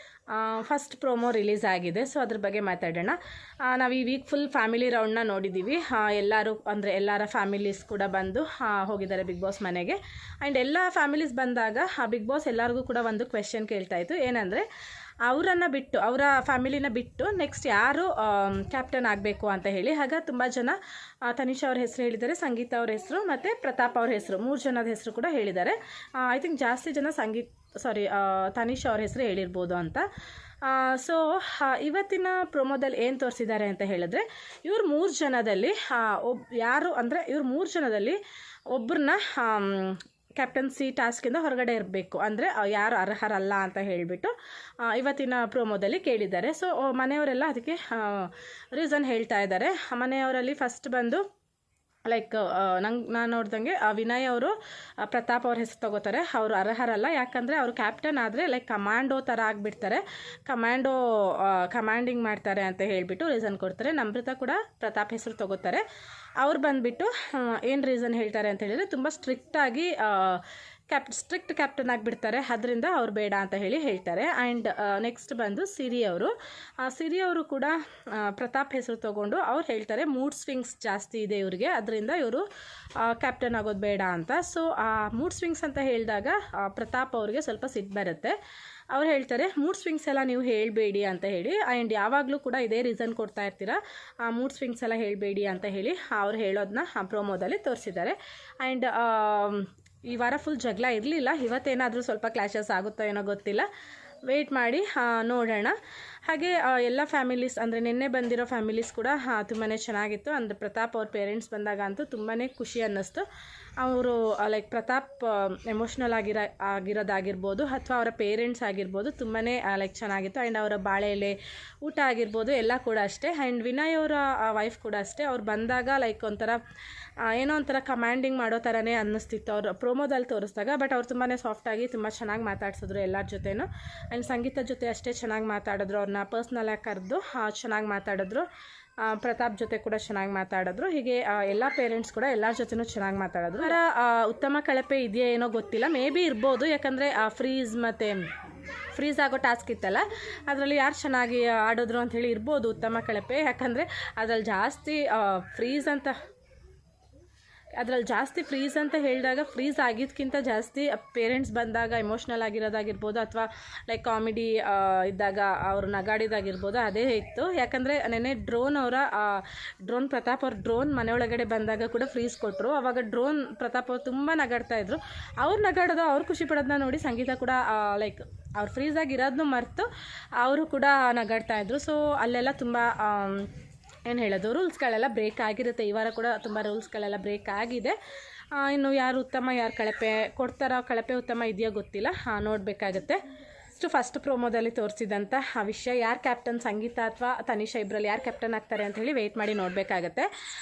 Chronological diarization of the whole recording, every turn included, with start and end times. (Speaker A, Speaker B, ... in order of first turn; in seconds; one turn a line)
Speaker A: 0.3-14.7
Speaker A: 15.2-30.1
Speaker A: 30.6-38.2
Speaker A: 38.7-51.2
Speaker A: 52.0-65.8
Speaker A: 66.4-82.5
Speaker A: 83.0-88.4
Speaker A: 88.9-103.7
Speaker A: 104.3-113.2
Speaker A: 113.8-126.6
Speaker A: 127.2-138.4
Speaker A: 139.0-148.2
Speaker A: 148.9-156.2
Speaker A: 157.8-183.5
Speaker A: 184.0-187.9
Speaker A: 188.5-193.2
Speaker A: 193.7-200.3